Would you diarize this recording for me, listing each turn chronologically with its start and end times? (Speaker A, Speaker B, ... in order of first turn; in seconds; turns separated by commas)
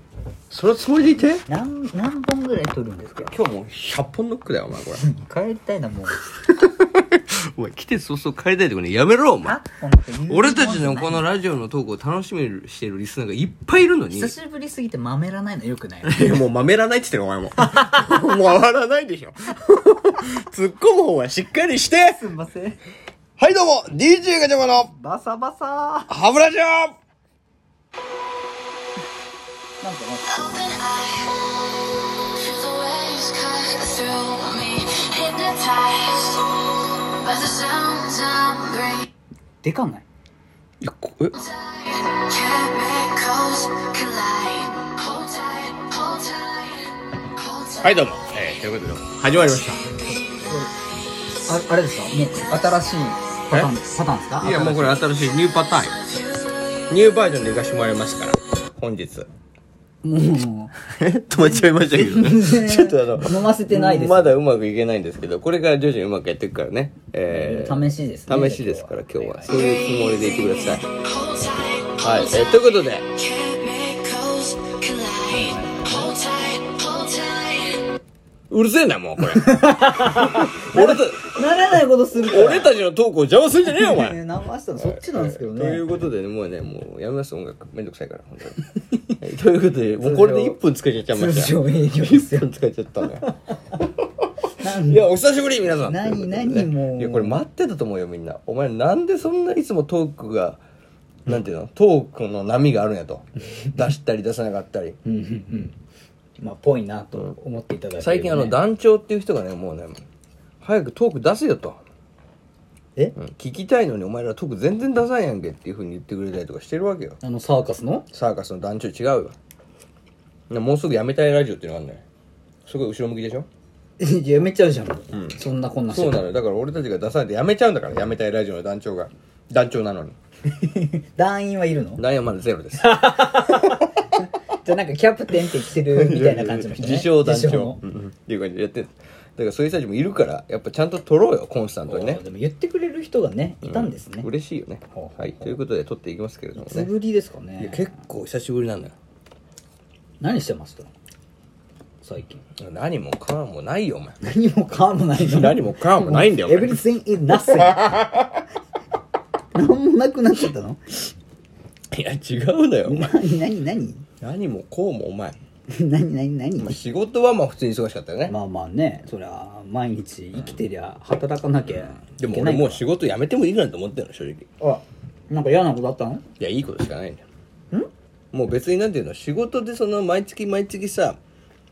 Speaker A: 0.5-1.4, Speaker B: 1.5-3.3, Speaker A: 3.3-5.0, Speaker B: 5.0-6.2, Speaker A: 6.3-9.6, Speaker B: 9.4-11.3, Speaker A: 10.3-14.3, Speaker B: 14.1-16.4, Speaker A: 16.0-22.2, Speaker B: 17.6-18.3, Speaker B: 22.1-22.8, Speaker A: 23.4-24.9, Speaker B: 24.9-26.1, Speaker A: 26.1-26.9, Speaker B: 29.8-30.8, Speaker C: 30.6-31.4, Speaker C: 32.2-39.1, Speaker B: 39.6-40.1, Speaker A: 40.8-41.4, Speaker C: 41.4-47.9, Speaker A: 47.8-49.9, Speaker B: 50.0-50.7, Speaker B: 51.5-55.0, Speaker A: 54.4-56.0, Speaker C: 56.1-56.6, Speaker A: 56.9-59.3, Speaker B: 60.0-60.7, Speaker A: 60.8-70.9, Speaker B: 61.6-64.4, Speaker B: 67.3-69.6, Speaker C: 70.9-72.4, Speaker A: 72.0-73.2, Speaker C: 73.1-77.9, Speaker B: 75.4-75.9, Speaker A: 75.4-75.9, Speaker A: 78.5-81.4, Speaker B: 79.3-82.7, Speaker A: 82.2-84.2, Speaker B: 83.7-85.8, Speaker A: 84.8-88.6, Speaker A: 89.2-93.3, Speaker B: 90.0-90.6, Speaker B: 91.1-92.5, Speaker A: 94.0-100.6, Speaker B: 94.6-95.1, Speaker B: 95.8-97.4, Speaker A: 101.3-105.0, Speaker B: 105.0-105.7, Speaker B: 106.4-108.6, Speaker A: 108.0-110.0, Speaker A: 110.6-111.8, Speaker A: 113.2-117.2, Speaker B: 117.2-118.1, Speaker A: 118.1-119.3, Speaker A: 120.5-122.0, Speaker A: 122.7-123.5, Speaker B: 124.0-126.3, Speaker A: 125.1-130.2, Speaker B: 130.5-132.0, Speaker A: 132.0-133.8, Speaker B: 132.8-137.8, Speaker A: 135.8-142.2, Speaker B: 141.9-144.3, Speaker A: 143.6-146.9, Speaker B: 144.9-145.5, Speaker B: 146.6-147.9, Speaker A: 147.6-148.9, Speaker B: 150.2-150.9, Speaker B: 152.0-152.4, Speaker A: 152.6-154.2, Speaker B: 154.2-158.0, Speaker A: 155.2-156.8, Speaker A: 157.4-158.4, Speaker B: 159.5-161.1, Speaker A: 161.9-163.2, Speaker B: 162.9-164.1, Speaker A: 164.2-165.4, Speaker B: 165.7-166.8, Speaker A: 166.6-168.3, Speaker B: 168.3-172.8, Speaker A: 172.0-174.5, Speaker B: 174.6-176.2, Speaker A: 176.4-177.2, Speaker A: 178.3-181.2